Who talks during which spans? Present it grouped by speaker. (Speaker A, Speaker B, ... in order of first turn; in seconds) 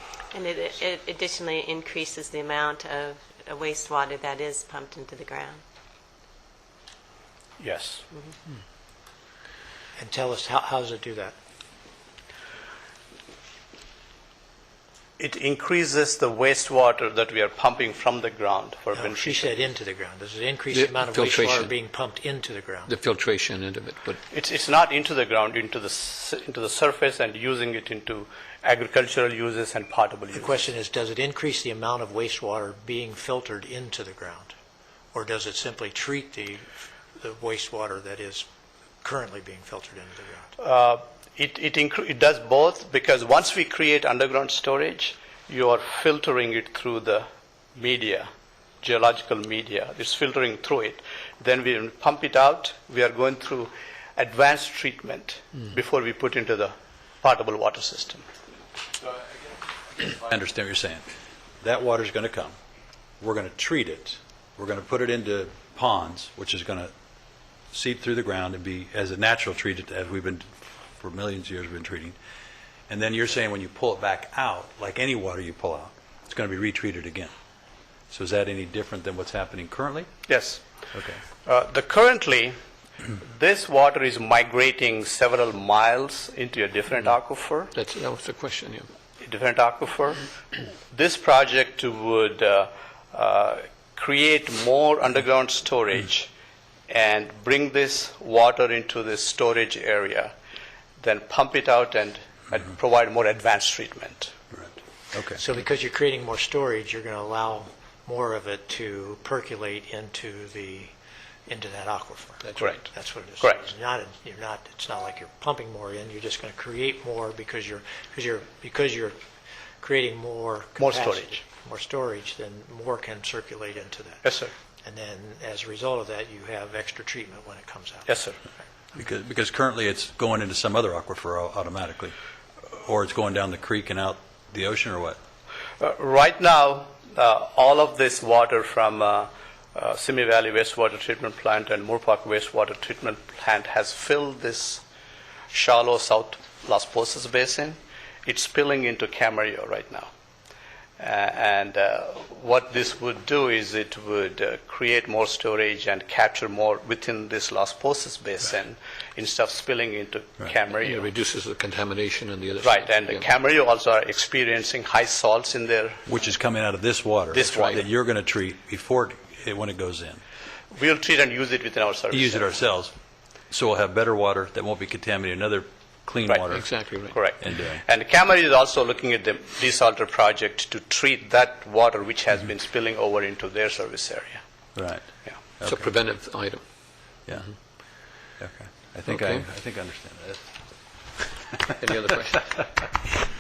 Speaker A: 0.3-5.6
Speaker B: 7.6-8.0, 15.2-19.7, 24.3-30.7, 40.6-48.3, 48.8-58.2, 80.3-80.6, 81.4-82.6, 83.2-87.7, 89.2-96.3, 96.9-100.3, 101.0-104.3, 112.6-112.8, 120.8-121.4, 124.2-124.5, 128.1-128.4, 135.8-144.8, 145.5-150.1, 151.0-161.1, 162.6-166.0, 167.3-167.8, 170.7-172.6, 177.0-184.4
Speaker C: 10.0-11.4, 18.9-22.9, 30.3-34.5, 35.1-38.5, 39.0-40.5, 105.4-110.9, 111.5-119.2, 119.8-124.2, 124.8-128.1
Speaker D: 20.7-21.7, 22.9-24.2, 87.7-88.9, 160.8-163.3, 167.5-167.8, 176.5-177.2, 185.6-186.7, 189.1-189.4, 191.8-193.1
Speaker E: 60.1-61.0, 61.6-62.6, 63.2-66.9, 67.7-72.2, 72.9-77.3, 78.1-80.3, 80.9-81.2, 104.5-105.4, 128.9-132.2, 132.8-135.2, 166.1-170.2, 172.1-172.9, 173.5-176.7, 177.4-177.8, 184.8-185.1, 185.6-185.9, 187.3-191.2